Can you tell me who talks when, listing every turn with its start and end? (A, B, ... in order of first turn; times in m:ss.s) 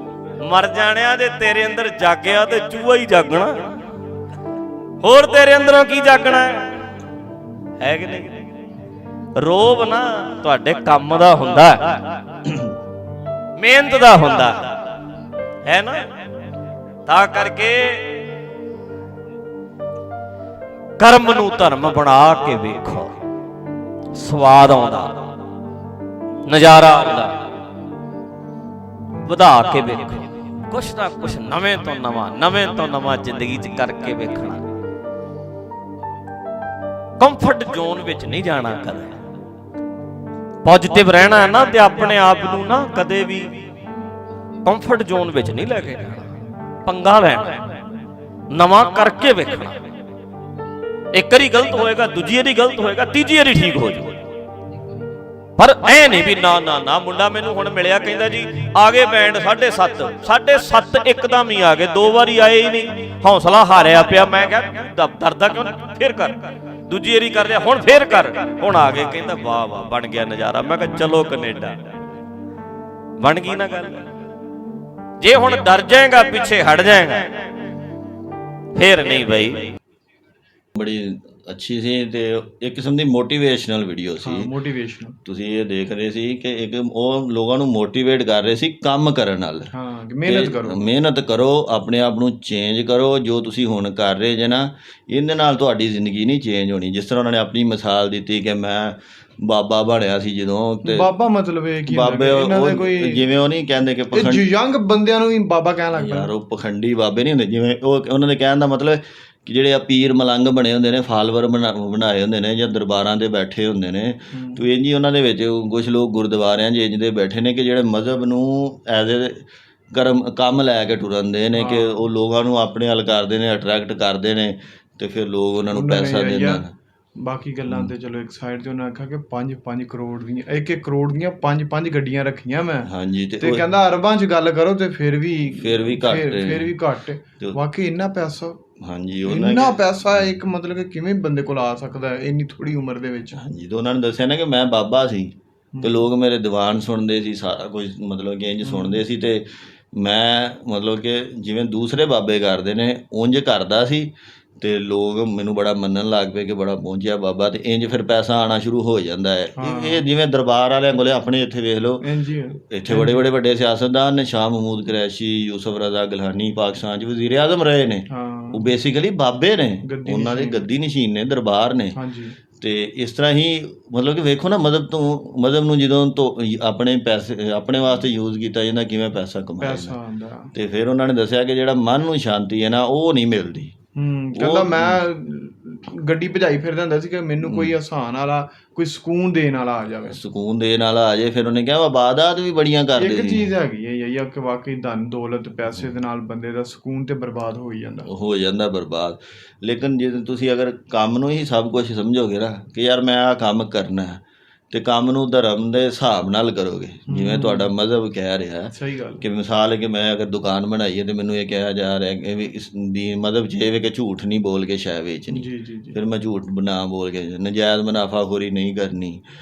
0:00.4-0:03.7 A
0:05.0-0:06.7 A
0:07.8-0:08.4 A
0:09.4-0:12.2 A
0:13.6-0:14.8 A
0:15.6-0:16.0 A
0:17.0-0:18.2 A
0:21.0-0:23.1 A
0:24.1-0:25.3 A
0:26.5-0:27.4 A
0:29.2-0:34.6 A
0:37.2-0:39.1 A
0:40.6-0:43.6 A
0:44.6-0:46.2 A
0:46.8-0:47.6 A
0:48.5-0:49.8 A
0:51.1-0:54.2 A
0:55.6-1:11.8 A
1:13.2-1:14.0 A
1:15.2-1:17.4 A
1:18.8-1:19.7 A
1:20.8-1:24.5 B
1:24.2-1:25.2 C
1:25.2-1:29.7 B
1:29.7-1:30.9 C
1:30.2-1:41.1 B
1:40.8-1:43.3 C
1:41.9-1:44.5 B
1:44.1-1:46.3 C
1:45.9-2:06.7 B
1:54.3-1:54.6 C
2:01.5-2:02.0 C
2:05.7-2:06.6 C
2:07.2-2:18.6 C
2:07.6-2:07.9 B
2:12.8-2:13.7 B
2:15.5-2:16.8 B
2:18.8-2:20.3 B
2:19.2-2:23.4 C
2:23.3-2:52.0 B
2:25.8-2:26.1 C
2:28.6-2:29.0 C
2:39.6-2:40.0 C
2:42.0-2:43.3 C
2:48.1-2:48.7 C
2:49.8-2:50.6 C
2:51.9-2:52.4 C
2:52.5-3:00.0 B
2:59.6-3:00.5 C
3:00.5-3:03.8 B
3:03.9-3:10.2 C
3:04.4-3:05.0 B
3:07.4-3:07.8 B
3:10.1-3:13.5 B
3:12.9-3:18.1 C
3:18.0-3:39.2 B
3:27.1-3:27.7 C
3:28.7-3:29.2 C
3:35.3-3:36.0 C